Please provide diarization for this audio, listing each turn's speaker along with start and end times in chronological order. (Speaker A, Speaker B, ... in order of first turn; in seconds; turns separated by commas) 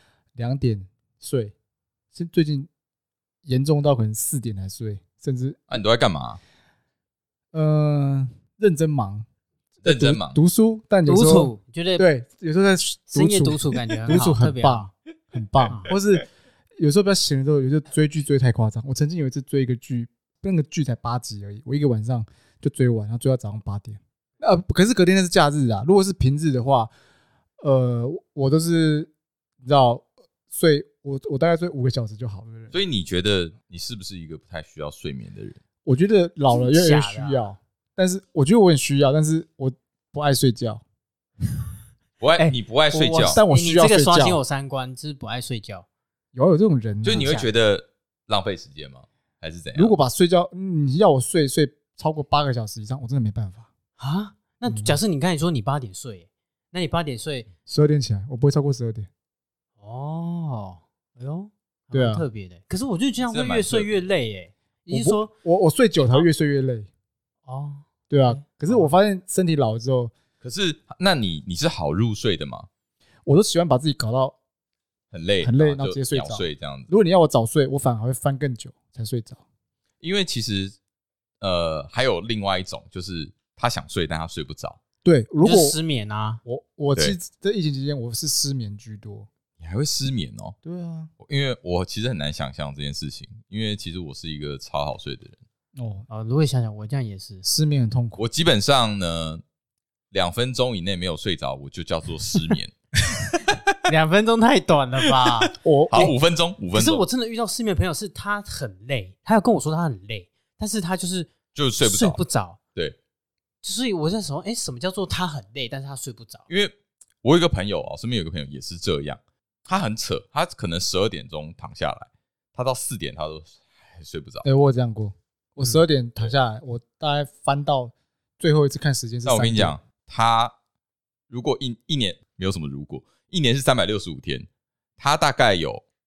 Speaker A: 0.3-1.5, Speaker A: 2.1-2.7, Speaker A: 3.4-5.7, Speaker B: 5.7-6.4, Speaker A: 7.5-9.2, Speaker B: 9.8-10.4, Speaker A: 9.8-16.2, Speaker C: 11.1-12.1, Speaker C: 13.1-14.9, Speaker A: 16.8-26.9, Speaker A: 27.6-32.7, Speaker B: 32.7-35.6, Speaker A: 35.8-40.8, Speaker C: 36.5-37.4, Speaker B: 42.2-43.4, Speaker C: 42.4-45.9, Speaker A: 43.3-44.4, Speaker A: 46.3-47.3, Speaker B: 47.0-49.9, Speaker C: 47.1-47.5, Speaker A: 49.7-53.7, Speaker C: 54.0-57.5, Speaker A: 54.6-55.0, Speaker A: 57.7-59.1, Speaker C: 59.8-65.3, Speaker A: 61.9-62.2, Speaker B: 63.3-63.9, Speaker A: 64.9-66.9, Speaker C: 66.0-66.2, Speaker C: 67.5-68.9, Speaker A: 68.1-70.1, Speaker B: 70.4-72.7, Speaker A: 73.2-74.3, Speaker B: 75.1-76.9, Speaker A: 75.4-79.4, Speaker B: 80.0-80.7, Speaker B: 81.4-84.8, Speaker A: 85.0-85.8, Speaker C: 85.4-86.4, Speaker A: 86.5-89.3, Speaker B: 89.6-90.5, Speaker A: 90.6-91.1, Speaker B: 91.2-95.4, Speaker A: 95.8-96.0, Speaker C: 96.1-97.5, Speaker A: 97.4-98.2, Speaker B: 98.2-99.4, Speaker B: 100.1-102.7, Speaker B: 103.3-103.7, Speaker C: 103.8-106.1, Speaker A: 105.5-106.1, Speaker B: 105.9-107.0, Speaker C: 106.7-112.6, Speaker B: 111.5-112.2, Speaker C: 113.6-116.4, Speaker B: 116.5-124.4, Speaker A: 124.4-129.7, Speaker B: 129.2-130.5, Speaker B: 131.3-134.5, Speaker B: 135.0-135.8